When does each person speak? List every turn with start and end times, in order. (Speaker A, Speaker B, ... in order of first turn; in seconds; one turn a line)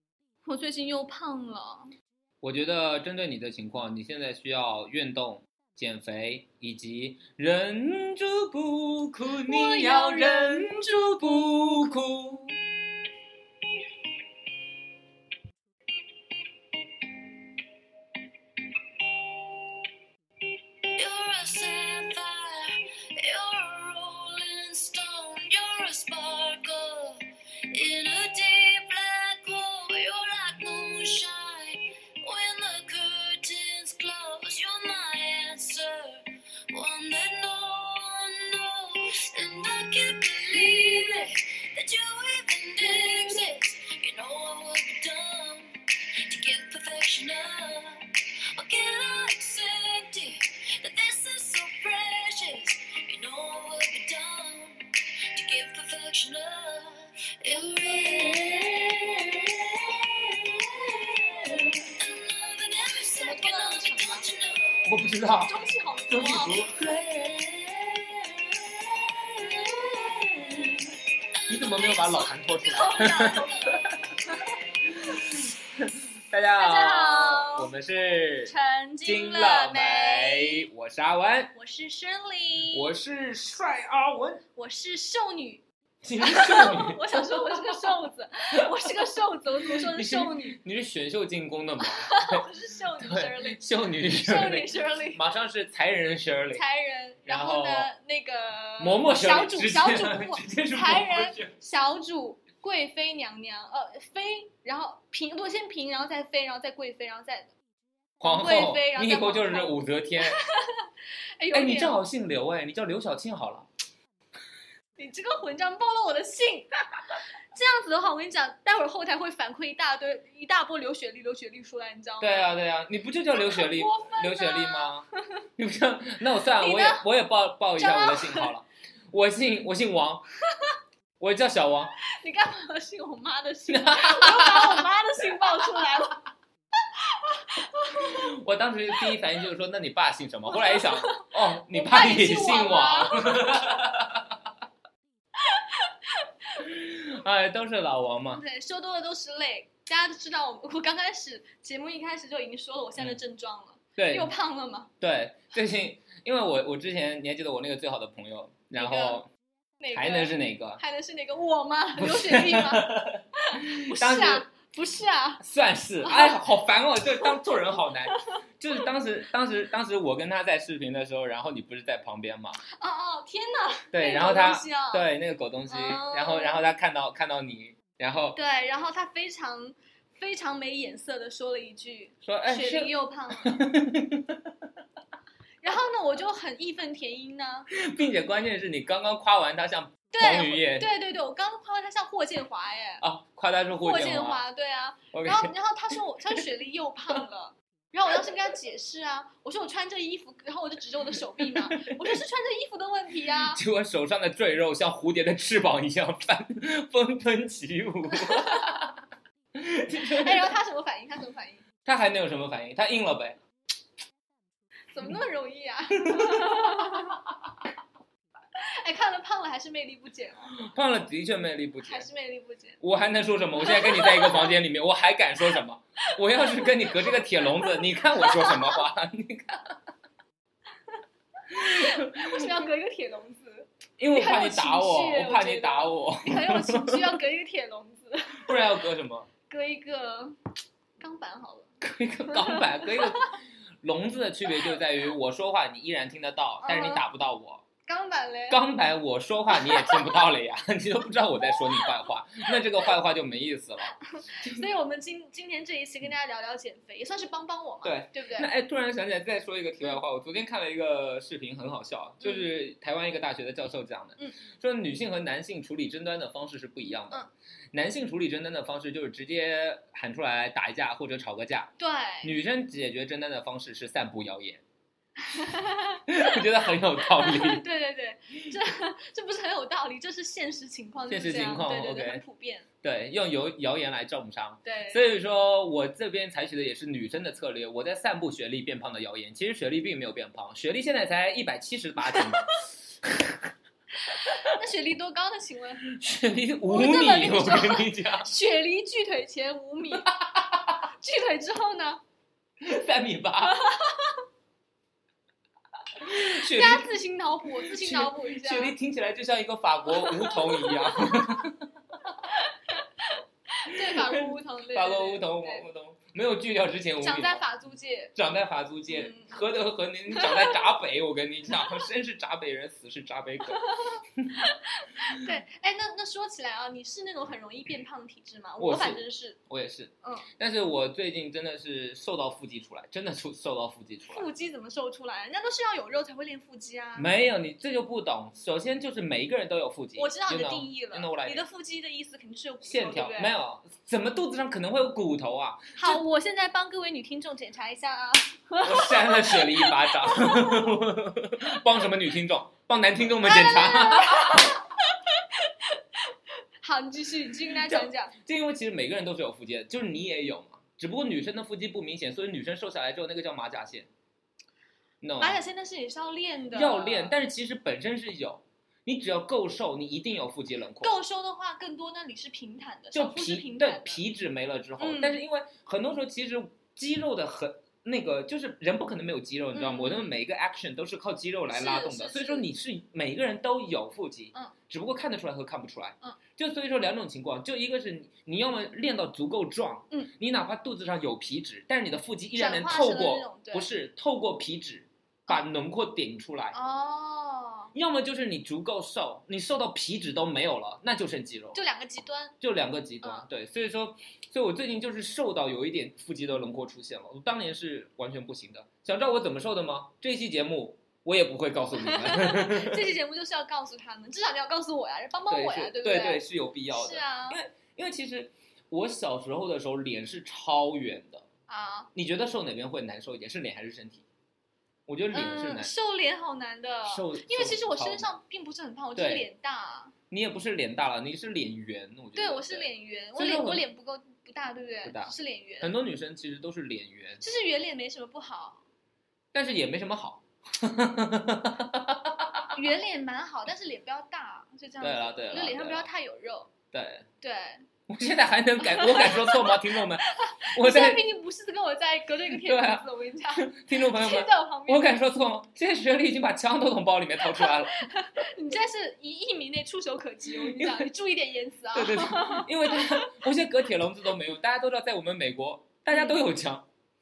Speaker A: 0.4-1.9
Speaker B: 2.4-12.6
Speaker A: 9.4-11.7
Speaker C: 20.9-65.0
Speaker A: 63.1-64.3
Speaker B: 64.8-65.5
Speaker A: 65.4-66.6
Speaker B: 66.1-67.4
Speaker C: 66.5-73.8
Speaker B: 71.5-74.0
Speaker A: 72.6-73.8
Speaker B: 74.8-81.5
Speaker A: 76.5-77.7
Speaker A: 78.4-80.7
Speaker A: 81.5-82.9
Speaker B: 82.7-84.4
Speaker A: 84.5-85.6
Speaker B: 86.0-88.0
Speaker A: 86.2-90.6
Speaker B: 88.6-89.0
Speaker B: 89.7-92.4
Speaker A: 91.8-95.2
Speaker B: 93.0-96.6
Speaker A: 96.5-107.5
Speaker B: 97.2-97.9
Speaker B: 98.8-101.5
Speaker A: 108.2-110.8
Speaker B: 108.2-110.4
Speaker A: 111.4-112.0
Speaker B: 111.5-113.7
Speaker A: 115.0-116.7
Speaker A: 117.5-122.5
Speaker B: 122.2-130.2
Speaker A: 123.3-124.9
Speaker A: 126.5-127.1
Speaker A: 127.8-128.5
Speaker B: 131.2-131.9
Speaker A: 132.1-136.2
Speaker B: 133.7-134.8
Speaker A: 136.9-138.3
Speaker B: 137.9-144.4
Speaker A: 140.5-143.7
Speaker A: 145.4-146.6
Speaker B: 146.6-148.4
Speaker A: 148.3-154.9
Speaker B: 154.0-154.3
Speaker B: 155.0-159.3
Speaker A: 158.8-159.2
Speaker A: 159.8-165.4
Speaker B: 159.9-160.8
Speaker B: 162.0-164.5
Speaker B: 165.4-172.6
Speaker A: 166.0-166.4
Speaker A: 172.6-175.0
Speaker B: 173.9-178.4
Speaker A: 175.7-176.6
Speaker A: 178.3-183.7
Speaker B: 182.2-184.5
Speaker A: 185.6-187.7
Speaker B: 187.7-190.9
Speaker A: 190.1-193.0
Speaker B: 193.0-194.4
Speaker A: 193.8-203.6
Speaker B: 195.1-196.4
Speaker B: 201.4-202.1
Speaker B: 203.4-209.0
Speaker A: 208.1-208.7
Speaker B: 209.5-210.5
Speaker A: 209.9-211.6
Speaker B: 211.8-213.4
Speaker A: 214.9-217.2
Speaker B: 216.1-217.2
Speaker A: 218.6-220.6
Speaker B: 220.5-222.1
Speaker A: 221.8-222.8
Speaker B: 222.8-229.8
Speaker A: 223.6-224.5
Speaker A: 226.3-228.8
Speaker A: 231.5-238.6
Speaker B: 231.5-232.5
Speaker B: 234.0-237.2
Speaker B: 238.4-239.3
Speaker A: 239.5-240.4
Speaker A: 241.0-241.7
Speaker B: 241.8-247.6
Speaker A: 242.3-243.3
Speaker A: 246.6-247.0
Speaker A: 247.8-248.6
Speaker B: 248.5-254.7
Speaker A: 249.5-250.2
Speaker A: 251.5-251.9
Speaker A: 254.1-258.5
Speaker B: 257.8-274.6
Speaker A: 271.8-272.3
Speaker A: 275.2-276.4
Speaker B: 276.1-277.6
Speaker A: 277.0-282.7
Speaker B: 281.1-282.2
Speaker B: 282.8-293.5
Speaker A: 284.6-285.1
Speaker A: 294.0-295.9
Speaker B: 295.9-298.3
Speaker A: 296.7-300.1
Speaker B: 300.1-300.8
Speaker A: 301.0-302.0
Speaker B: 302.6-303.6
Speaker A: 303.4-304.2
Speaker B: 306.0-306.9
Speaker A: 306.1-308.7
Speaker B: 307.6-311.7
Speaker A: 310.0-311.4
Speaker A: 312.3-315.6
Speaker B: 313.7-317.4
Speaker A: 317.0-318.1
Speaker B: 318.1-323.6
Speaker A: 318.9-319.4
Speaker A: 320.1-320.6
Speaker A: 323.5-329.4
Speaker B: 328.6-334.2
Speaker A: 334.1-337.1
Speaker B: 336.9-341.4
Speaker A: 339.9-343.3
Speaker B: 342.6-346.0
Speaker A: 345.8-350.7
Speaker B: 348.6-354.6
Speaker A: 353.2-358.1
Speaker B: 357.5-363.9
Speaker B: 365.0-365.4
Speaker A: 365.2-367.2
Speaker B: 366.5-370.9
Speaker A: 370.8-374.0
Speaker B: 372.9-396.6
Speaker A: 374.8-375.2
Speaker A: 379.5-380.1
Speaker A: 381.5-382.5
Speaker A: 392.3-393.7
Speaker A: 396.5-397.7
Speaker B: 397.7-401.6
Speaker A: 401.5-402.4
Speaker B: 402.4-412.9
Speaker A: 411.8-417.4
Speaker B: 415.3-421.2
Speaker A: 421.5-421.9
Speaker B: 421.9-424.0
Speaker B: 424.9-425.7
Speaker A: 425.1-429.9
Speaker B: 426.8-428.1
Speaker B: 428.9-429.3
Speaker B: 430.1-433.7
Speaker A: 432.1-435.7
Speaker B: 434.8-437.2
Speaker A: 437.2-438.6
Speaker B: 439.3-442.5
Speaker A: 442.5-446.5
Speaker B: 444.8-445.9
Speaker B: 446.7-447.1
Speaker A: 447.2-447.6
Speaker B: 447.9-451.0
Speaker A: 448.6-454.9
Speaker B: 452.3-457.9
Speaker A: 457.2-463.1
Speaker B: 460.3-460.9
Speaker B: 461.7-466.7
Speaker A: 465.9-466.2